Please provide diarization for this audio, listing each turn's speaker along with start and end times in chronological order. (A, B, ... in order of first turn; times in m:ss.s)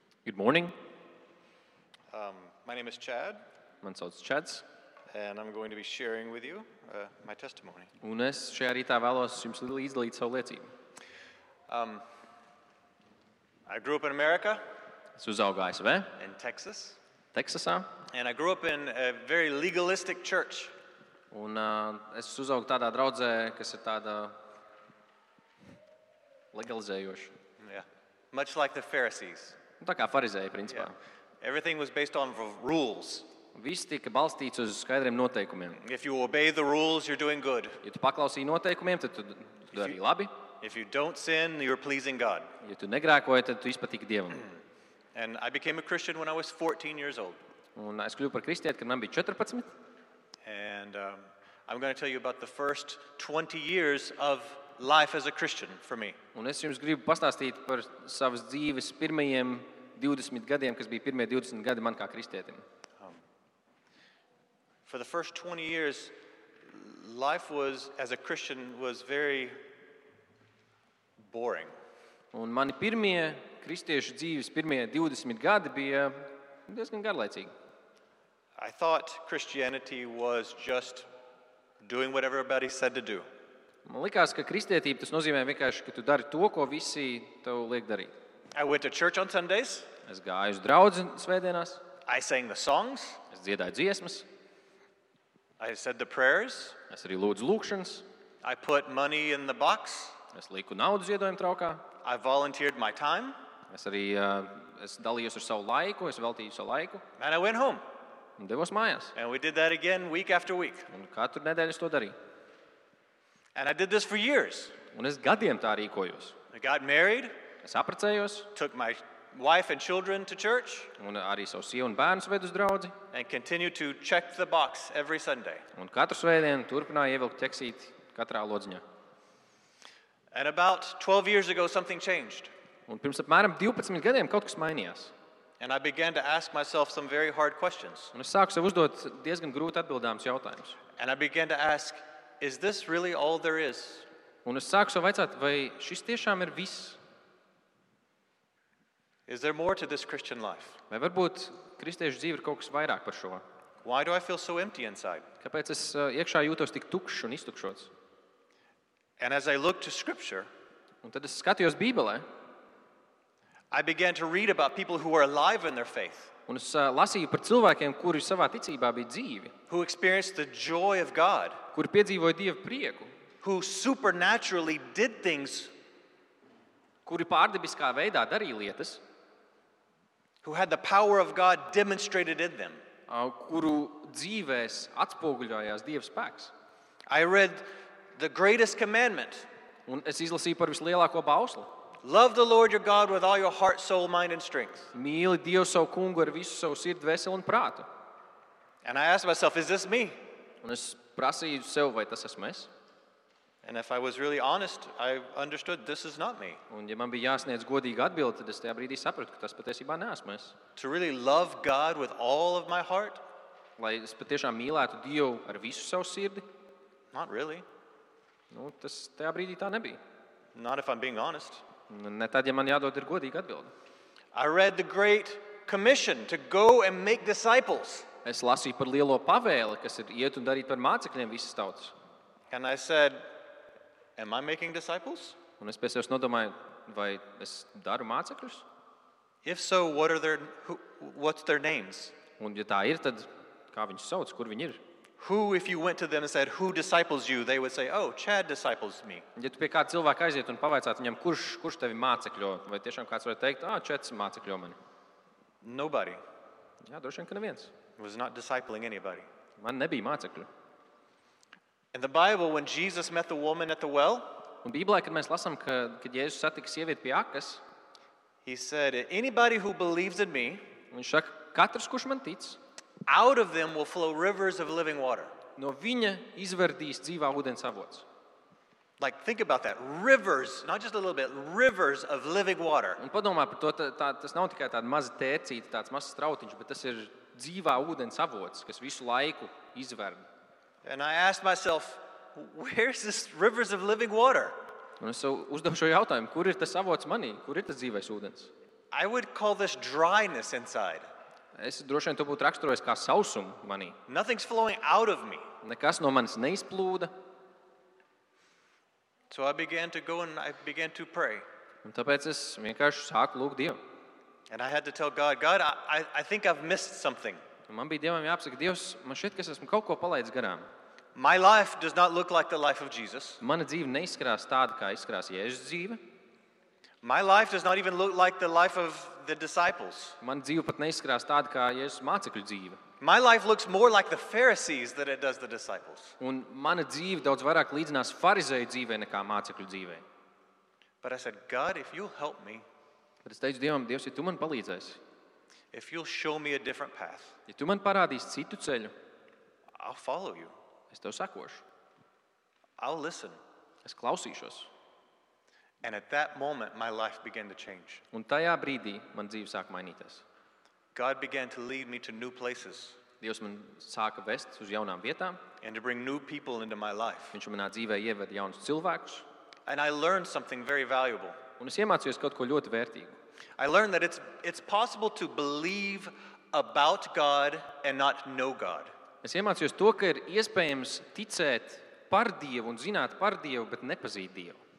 0:00.2-0:00.8 A
0:02.1-0:03.4 B
0:03.8-0:04.6 A
0:05.1-0:07.9 B
0:08.0-0:10.6 A
0:11.7-0:12.0 B
0:13.7-0:14.6 B
0:15.2-0:16.1 A
0:16.2-0:17.0 B
0:17.3-0:17.9 A
0:18.1-0:20.7 B
0:21.3-0:24.4 A
0:26.5-0:27.3 A
0:27.6-0:29.6 B
0:29.8-0:31.0 A
0:31.4-0:33.3 B
0:33.6-0:35.8 A
0:35.8-0:37.8 B
0:37.8-0:40.3 A
0:39.7-0:40.0 B
0:40.6-0:42.5 B
0:42.6-0:44.5 A
0:45.2-0:47.4 B
0:47.8-0:49.7 A
0:50.4-0:56.2 B
0:56.4-1:02.6 A
1:04.8-1:06.1 B
1:06.7-1:09.6 B
1:11.2-1:11.7 B
1:12.3-1:17.5 A
1:18.6-1:21.1 B
1:21.8-1:23.2 B
1:23.8-1:28.1 A
1:28.5-1:29.9 B
1:30.1-1:31.8 A
1:32.1-1:33.2 B
1:33.3-1:34.3 A
1:35.6-1:36.8 B
1:36.9-1:38.0 A
1:38.4-1:40.2 B
1:40.3-1:41.8 A
1:42.0-1:43.4 B
1:43.7-1:47.0 A
1:47.2-1:47.8 B
1:48.4-1:49.1 A
1:49.2-1:50.9 B
1:50.9-1:52.1 A
1:53.5-1:54.8 B
1:54.9-1:56.4 A
1:56.5-1:57.3 B
1:57.6-1:58.5 A
1:58.5-2:00.9 B
2:01.0-2:02.9 A
2:03.1-2:05.6 B
2:05.8-2:08.8 A
2:10.3-2:12.5 B
2:12.9-2:15.1 A
2:15.6-2:18.1 B
2:18.1-2:20.8 A
2:21.0-2:24.1 B
2:24.4-2:27.0 A
2:29.3-2:30.8 B
2:30.9-2:33.4 A
2:33.8-2:35.2 B
2:35.4-2:37.9 A
2:39.2-2:40.5 B
2:41.0-2:42.2 A
2:43.7-2:46.3 B
2:46.5-2:49.5 A
2:49.7-2:51.6 B
2:51.7-2:53.1 A
2:53.4-2:55.7 B
2:57.0-2:59.0 A
3:00.4-3:02.8 B
3:03.1-3:06.5 A
3:07.1-3:09.5 B
3:09.9-3:11.7 A
3:12.0-3:14.9 B
3:14.9-3:17.9 A
3:18.8-3:20.2 B
3:20.6-3:22.7 A
3:23.6-3:26.6 B
3:26.7-3:30.6 A
3:30.8-3:33.2 B
3:33.8-3:36.4 A
3:37.1-3:37.6 B
3:38.5-3:40.0 A
3:40.5-3:41.6 B
3:41.9-3:43.7 A
3:44.3-3:48.1 B
3:48.2-3:51.9 A
3:52.5-3:53.2 B
3:54.2-3:55.4 B
3:55.6-3:58.6 A
3:59.4-4:02.1 B
4:02.4-4:04.8 A
4:05.2-4:09.2 B
4:09.4-4:14.8 A
4:15.6-4:16.2 B
4:16.9-4:17.7 A
4:18.0-4:19.3 B
4:19.6-4:20.5 A
4:21.9-4:24.4 B
4:24.6-4:27.6 A
4:28.4-4:30.6 B
4:30.9-4:32.6 A
4:33.1-4:35.3 B
4:35.6-4:38.0 A
4:39.0-4:43.0 B
4:43.0-4:50.2 A
4:50.8-4:54.6 B
4:55.0-4:58.5 A
4:58.9-5:01.1 B
5:01.6-5:04.0 A
5:04.1-5:05.4 B
5:05.6-5:07.1 A
5:09.3-5:11.4 B
5:11.8-5:13.8 A
5:14.5-5:17.4 B
5:17.7-5:20.7 A
5:21.1-5:23.4 B
5:23.4-5:26.0 A
5:27.0-5:30.2 B
5:30.2-5:32.8 A
5:33.0-5:36.1 B
5:36.2-5:40.0 A
5:41.0-5:42.6 B
5:43.2-5:45.0 A
5:45.7-5:47.3 B
5:47.5-5:48.9 A
5:49.8-5:50.5 B
5:50.9-5:51.6 A
5:52.8-5:53.4 B
5:53.8-5:54.7 A
5:55.8-5:58.0 B
5:58.1-6:00.2 A
6:00.9-6:03.0 B
6:03.2-6:05.4 A
6:05.6-6:07.3 B
6:07.3-6:09.2 A
6:09.6-6:11.4 B
6:11.6-6:13.1 A
6:13.6-6:18.9 B
6:19.2-6:24.6 A